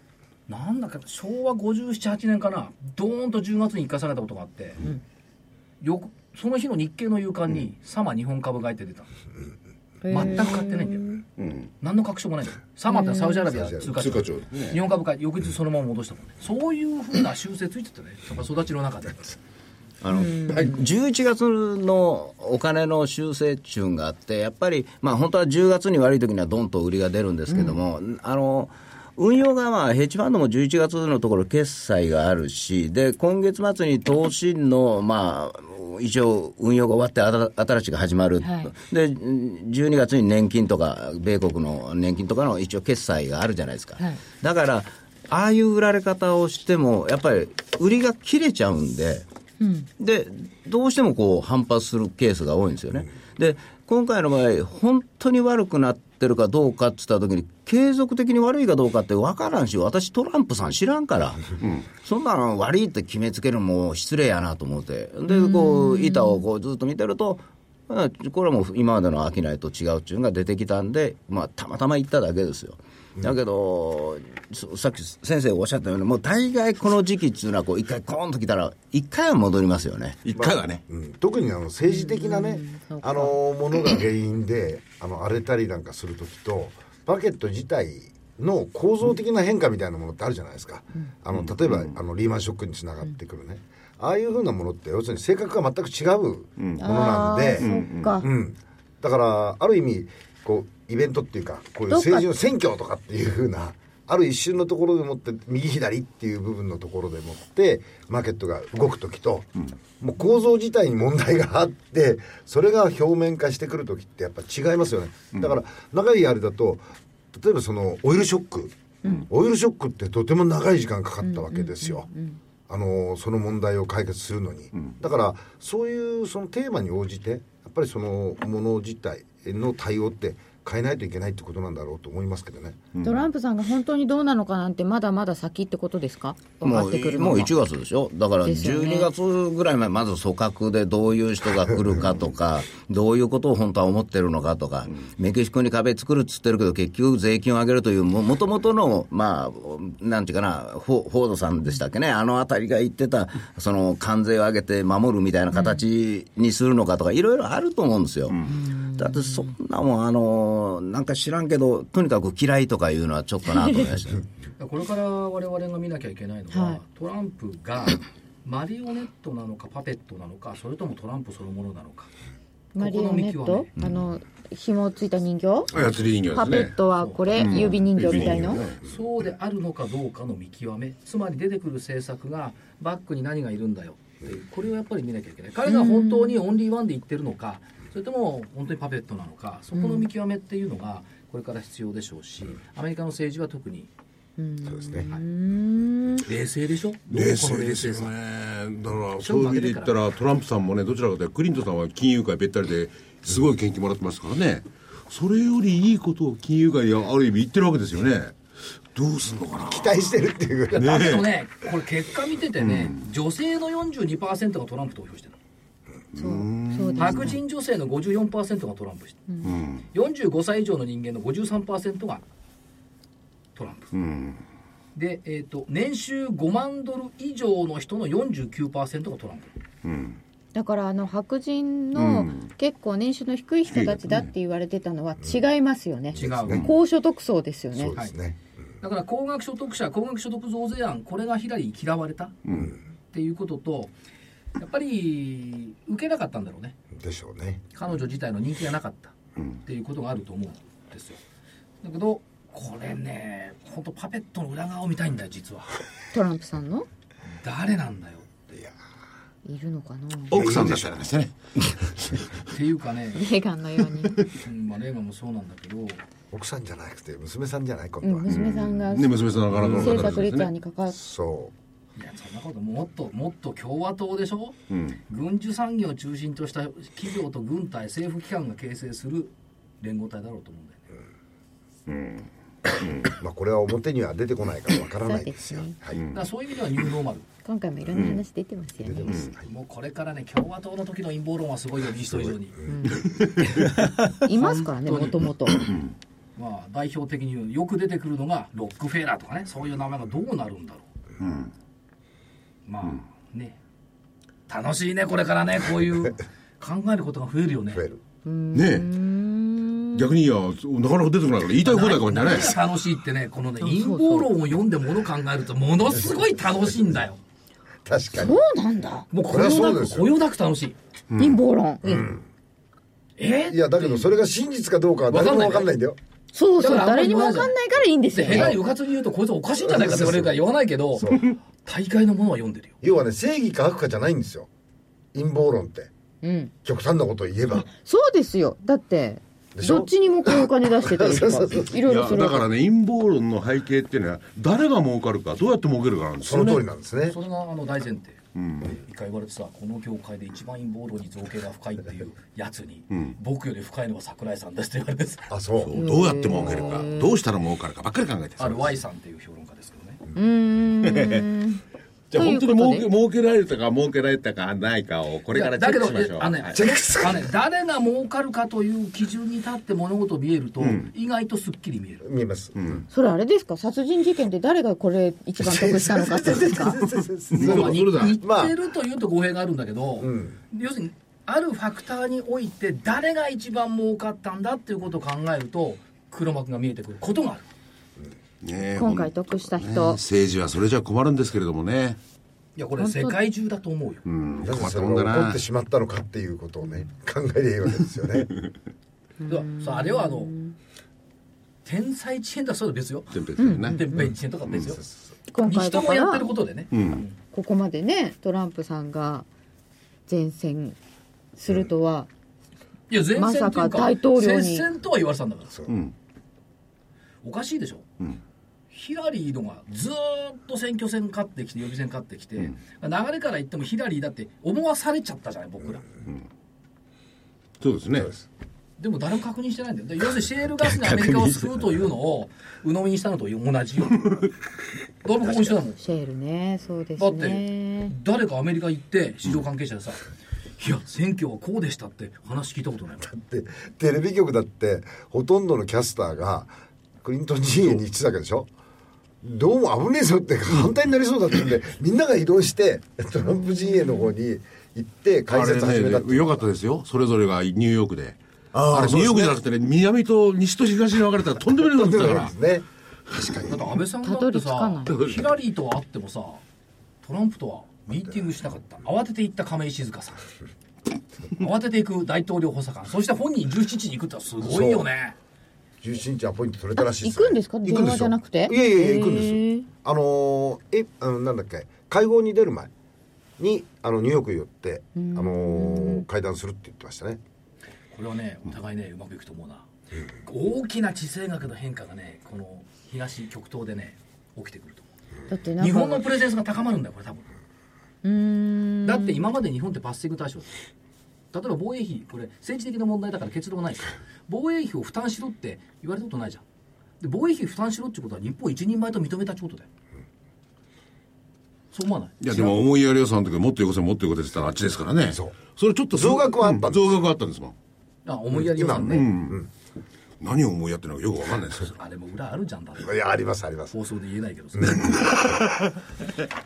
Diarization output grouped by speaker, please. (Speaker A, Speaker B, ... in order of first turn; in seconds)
Speaker A: 0.5-4.8, 5.8-9.1, 10.1-11.1, 11.8-19.4, 164.6-172.1, 172.8-173.7, 176.9-177.6, 178.7-193.9, 196.2-198.1, 199.2-199.9, 210.7-215.4, 217.0-219.2, 219.9-222.2, 223.5-223.9, 224.9-229.5, 236.2-236.7, 238.8-242.4, 243.1-243.9, 244.6-246.8, 247.7-251.2, 251.8-255.8, 257.4-258.5, 262.5-263.3, 264.3-266.0, 271.9-274.6, 275.1-280.9, 286.1-287.2, 289.4-292.6, 294.3-295.2, 296.4-300.9, 302.7-303.6, 304.5-307.8, 311.6-317.2, 319.1-320.8, 323.2-324.1, 325.1-325.7, 326.6-327.5, 328.1-332.8, 347.1-355.3, 358.4-360.0, 365.3-372.0, 377.4-387.5, 392.6-394.0, 399.3-400.3, 401.6-404.8, 405.4-407.1, 412.9-415.6, 417.2-417.9, 418.7-425.8, 428.8-434.2, 435.0-435.8, 437.0-440.0, 440.6-443.1, 463.4-466.4, 467.0-470.3, 471.4-475.1, 487.9-489.7, 490.2-494.9, 495.6-497.3, 498.8-500.6, 501.3-506.4, 507.0-509.7, 511.7-512.6, 518.0-519.1, 521.8-523.0, 523.7-525.0
Speaker B: 10.0-11.2, 12.9-13.4, 20.1-20.8, 38.4-38.7, 49.6-49.9, 65.3-66.4, 81.8-83.3, 96.8-98.3, 101.9-102.2, 121.2-122.4, 133.0-137.5, 138.4-139.1, 155.5-155.8, 158.4-159.5, 166.5-166.8, 172.7-175.7, 176.3-178.6, 185.7-186.4, 189.7-190.0, 194.4-196.2, 216.2-217.3, 230.5-237.9, 256.1-256.9, 259.4-260.4, 263.1-264.2, 268.0-271.0, 285.0-285.8, 287.4-289.2, 292.6-293.1, 294.2-295.7, 308.2-310.1, 313.6-314.3, 318.1-319.1, 321.2-322.1, 326.3-328.6, 336.2-336.5, 337.7-342.5, 355.7-357.2, 360.1-361.6, 362.1-362.9, 372.9-376.8, 388.8-390.0, 392.8-393.2, 399.2-400.5, 403.4-404.0, 405.3-406.3, 407.3-409.2, 410.1-410.8, 411.4-412.1, 413.1-414.6, 435.8-437.9, 464.0-465.1, 476.8-479.6, 484.9-486.1, 495.3-496.0, 498.0-499.2
Speaker C: 11.4-11.7, 14.0-14.8, 61.6-61.8, 80.2-80.8, 91.4-91.9, 96.6-96.8, 97.6-98.2, 132.9-133.3, 175.7-176.8, 177.3-178.8, 197.1-208.3, 208.9-210.0, 210.7-211.3, 212.6-213.0, 216.1-217.3, 219.4-219.8, 223.9-224.4, 229.8-230.2, 231.9-232.4, 233.7-234.3, 242.4-242.7, 260.3-262.3, 268.2-270.5, 274.7-274.9, 281.9-282.2, 285.9-286.2, 287.9-288.2, 293.0-293.8, 295.5-295.9, 301.2-301.5, 308.5-308.9, 309.9-312.6, 321.1-321.4, 341.8-346.6, 348.3-348.7, 355.6-358.7, 360.8-361.3, 362.1-366.6, 370.6-370.9, 372.6-372.8, 377.3-378.2, 388.4-392.0, 394.0-395.4, 403.1-403.9, 406.7-407.0, 415.6-415.9, 427.6-428.1, 455.3-458.2, 458.7-462.3, 512.2-517.5, 518.8-519.4, 520.2-521.7, 524.8-525.8
Speaker D: 13.5-14.1, 80.3-122.1, 122.7-132.9, 194.6-195.1, 209.7-211.0, 236.1-236.7, 237.7-238.4, 246.9-247.6, 260.3-261.0, 266.3-268.3, 269.6-270.2, 270.9-271.5, 283.0-286.0, 288.8-289.4, 307.7-308.0, 317.8-318.4, 319.3-320.1, 321.8-322.2, 323.5-326.0, 328.3-328.5, 329.6-330.4, 330.9-331.3, 332.8-334.5, 335.1-335.9, 336.6-337.7, 339.5-341.8, 346.2-347.2, 355.3-356.6, 366.5-367.2, 372.0-372.8, 375.4-378.5, 380.0-380.4, 394.4-398.3, 404.7-405.0, 443.0-448.5, 449.2-456.5, 458.5-459.4, 461.6-463.5, 474.4-474.9, 475.8-482.7, 483.4-487.2, 515.1-515.4, 515.9-517.0, 518.3-519.5, 522.8-523.7
Speaker E: 20.0-49.2, 50.0-80.2, 136.6-164.2